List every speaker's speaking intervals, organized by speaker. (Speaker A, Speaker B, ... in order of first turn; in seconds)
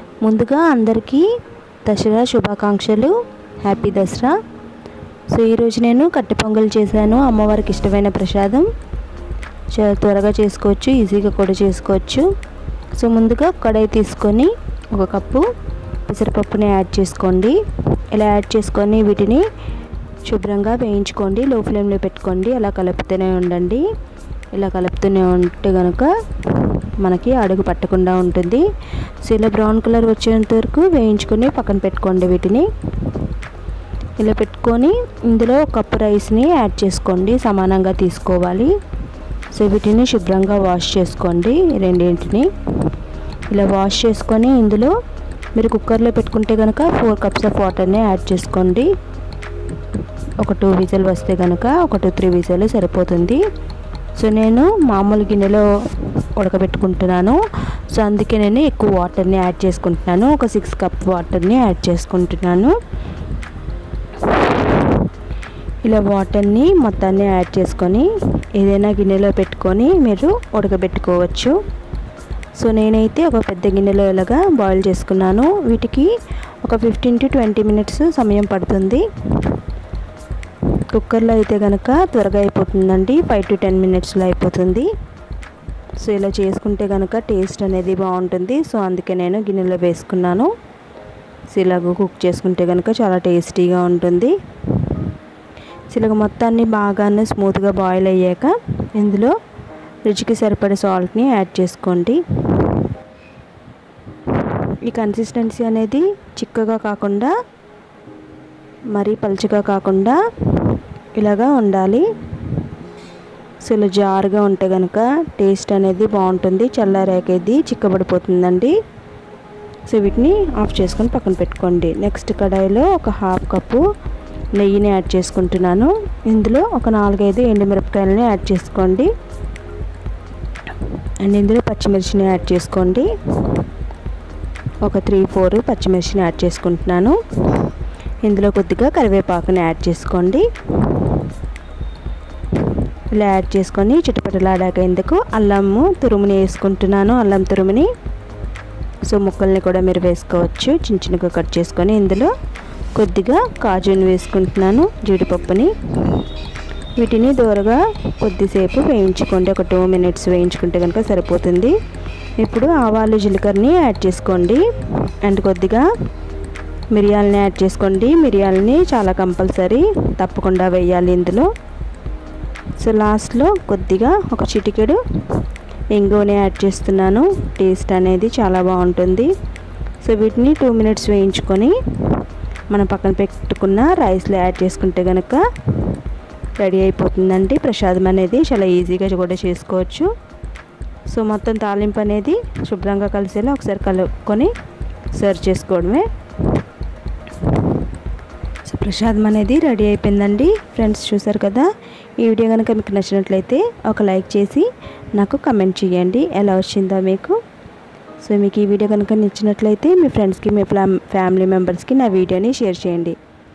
Speaker A: 0.2-1.3, 1.9-4.3, 5.3-8.7, 9.7-12.3, 13.0-15.4, 16.1-17.6, 18.1-19.4, 20.2-23.8, 24.5-28.6, 29.2-33.2, 34.2-38.7, 39.5-42.5, 43.5-44.9, 45.5-48.9, 50.4-53.4, 54.2-57.4, 57.9-62.7, 64.2-65.0, 65.8-71.5, 72.6-76.1, 76.6-79.6, 80.9-84.9, 86.0-90.5, 91.5-94.9, 95.9-99.3, 100.0-102.9, 104.4-107.3, 108.9-112.6, 113.6-118.7, 119.9-123.8, 124.5-129.1, 130.8-133.7, 134.8-137.7, 138.2-141.3, 143.1-147.9, 149.1-152.3, 152.9-156.2, 157.0-161.7, 162.4-164.6, 165.2-165.8, 166.9-171.5, 172.8-175.4, 175.9-179.3, 180.0-186.0, 186.6-190.1, 191.1-194.5, 195.1-196.5, 197.4-197.8, 198.7-201.7, 202.2-207.4, 208.2-213.2